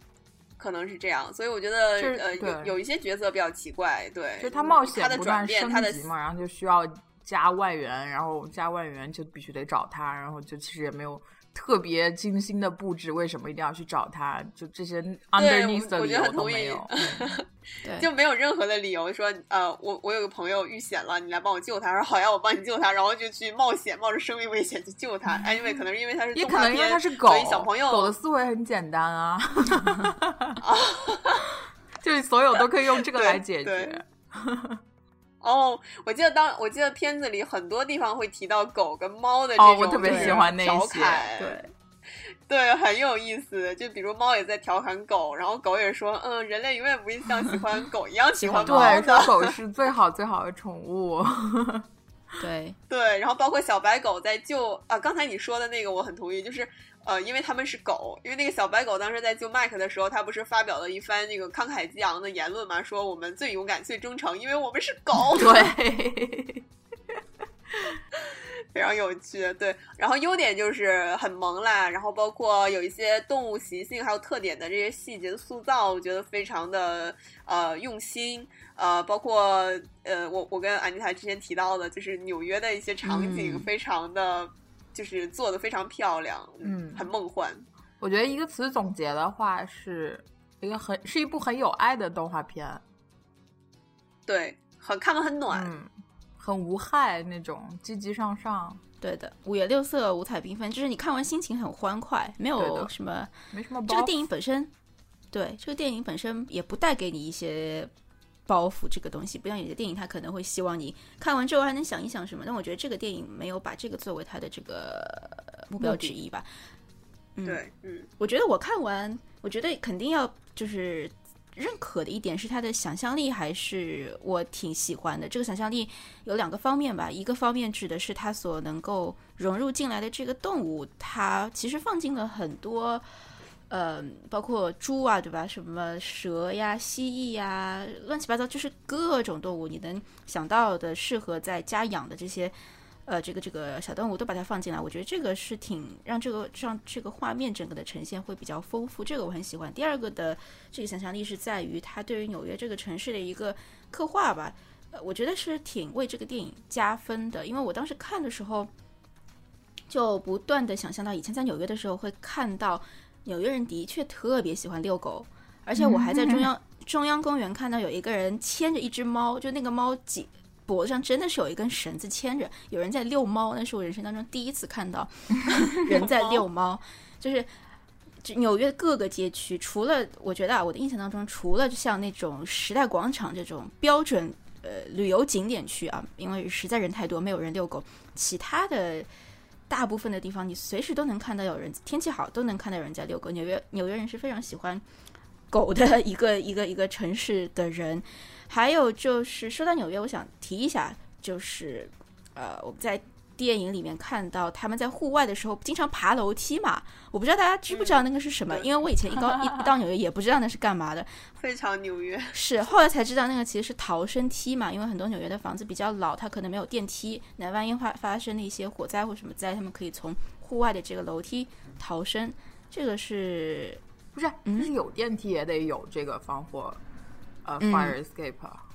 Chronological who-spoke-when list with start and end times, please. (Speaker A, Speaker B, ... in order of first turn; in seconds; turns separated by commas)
Speaker A: 0.6-6.0, Speaker B: 2.0-2.8, Speaker B: 4.4-17.4, Speaker A: 15.4-17.4, Speaker A: 18.0-28.1, Speaker B: 26.3-30.6, Speaker A: 30.6-31.5, Speaker B: 32.0-34.8, Speaker A: 32.5-34.0, Speaker A: 35.4-41.6, Speaker B: 39.6-41.7, Speaker C: 40.0-40.4, Speaker A: 42.5-49.5, Speaker C: 48.4-49.0, Speaker B: 48.6-51.9, Speaker C: 52.4-52.8, Speaker A: 52.9-65.7, Speaker B: 65.3-66.6, Speaker A: 68.1-87.7, Speaker C: 83.0-83.7, Speaker B: 86.6-87.1, Speaker B: 88.0-92.8, Speaker A: 94.3-95.7, Speaker B: 95.5-98.8, Speaker C: 99.0-103.3, Speaker B: 102.6-102.9, Speaker B: 103.5-104.2, Speaker C: 103.9-104.7, Speaker C: 105.3-107.9, Speaker C: 108.5-116.5, Speaker A: 117.5-118.1, Speaker C: 118.2-133.0, Speaker C: 133.7-142.5, Speaker C: 143.1-158.7, Speaker C: 159.9-177.5, Speaker B: 165.8-166.5, Speaker A: 175.9-176.4, Speaker C: 178.2-189.1, Speaker C: 189.7-194.8, Speaker C: 195.5-211.2, Speaker A: 207.7-208.7, Speaker A: 211.4-212.3, Speaker C: 212.3-223.8, Speaker B: 224.1-226.8, Speaker C: 224.4-224.7, Speaker B: 227.4-228.6, Speaker C: 227.6-227.9